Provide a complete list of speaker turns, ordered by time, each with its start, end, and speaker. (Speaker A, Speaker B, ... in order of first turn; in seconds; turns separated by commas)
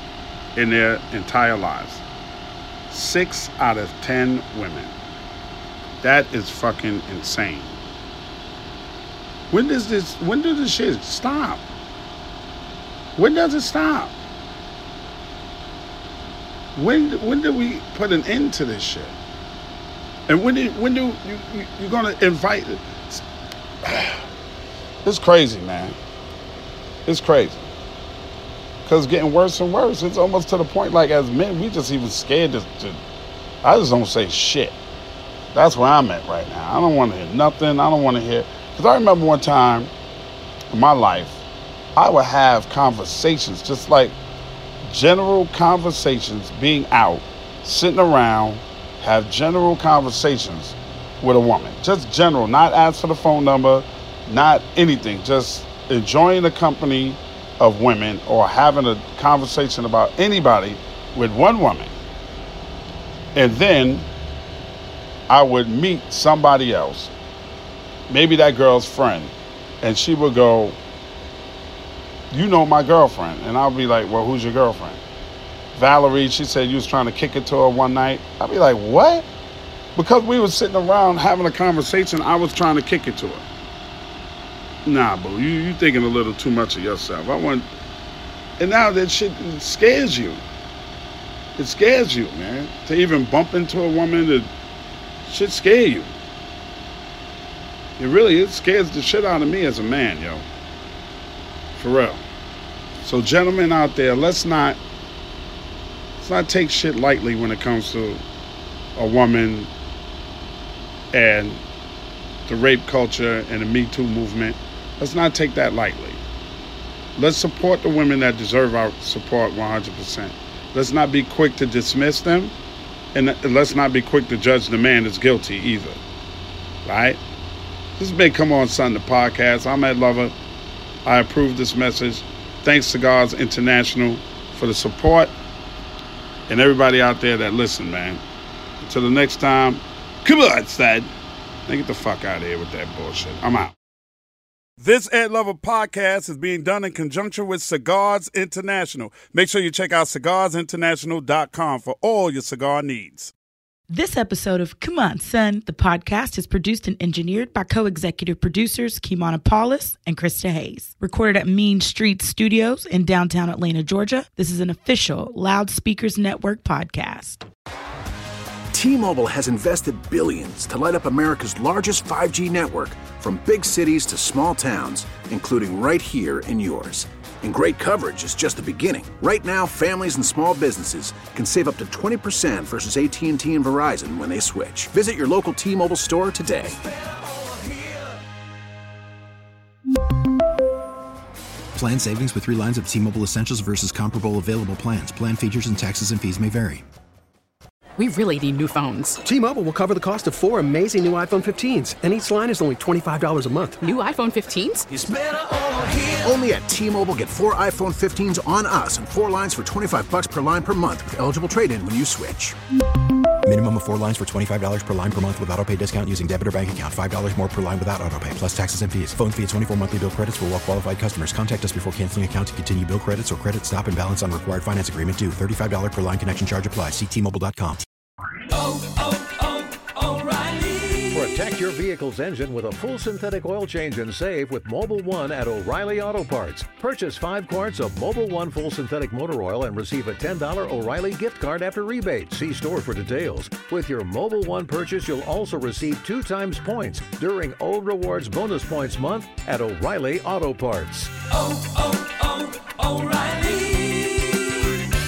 Speaker A: 0.6-2.0, Speaker A: 2.9-4.9, Speaker A: 6.0-7.8, Speaker A: 9.5-11.6, Speaker A: 13.2-14.1, Speaker A: 16.8-19.1, Speaker A: 20.3-23.2, Speaker A: 23.8-24.2, Speaker A: 25.1-26.0, Speaker A: 27.1-27.7, Speaker A: 28.9-33.0, Speaker A: 33.6-34.8, Speaker A: 35.5-39.9, Speaker A: 40.7-41.4, Speaker A: 42.0-44.1, Speaker A: 44.9-61.9, Speaker A: 63.4-64.1, Speaker A: 65.3-67.1, Speaker A: 68.1-70.8, Speaker A: 72.3-75.0, Speaker A: 75.7-79.3, Speaker A: 80.0-83.4, Speaker A: 84.8-87.7, Speaker A: 88.6-90.4, Speaker A: 91.6-94.5, Speaker A: 95.2-96.1, Speaker A: 98.0-100.5, Speaker A: 101.8-102.2, Speaker A: 103.0-104.8, Speaker A: 106.2-108.2, Speaker A: 109.0-109.7, Speaker A: 111.1-111.6, Speaker A: 112.5-116.2, Speaker A: 117.2-122.5, Speaker A: 123.1-126.0, Speaker A: 126.8-127.2, Speaker A: 128.0-130.3, Speaker A: 131.1-135.3, Speaker A: 136.5-138.2, Speaker A: 138.8-141.1, Speaker A: 141.7-143.8, Speaker A: 144.8-153.3, Speaker B: 153.9-167.4, Speaker C: 168.7-186.8, Speaker D: 186.9-188.1, Speaker E: 191.8-196.8, Speaker F: 198.0-199.2, Speaker G: 199.2-203.8, Speaker F: 203.8-204.9, Speaker C: 204.9-212.6, Speaker D: 205.9-206.2, Speaker E: 213.4-227.8, Speaker D: 228.5-231.4, Speaker H: 231.1-251.2, Speaker D: 251.3-254.6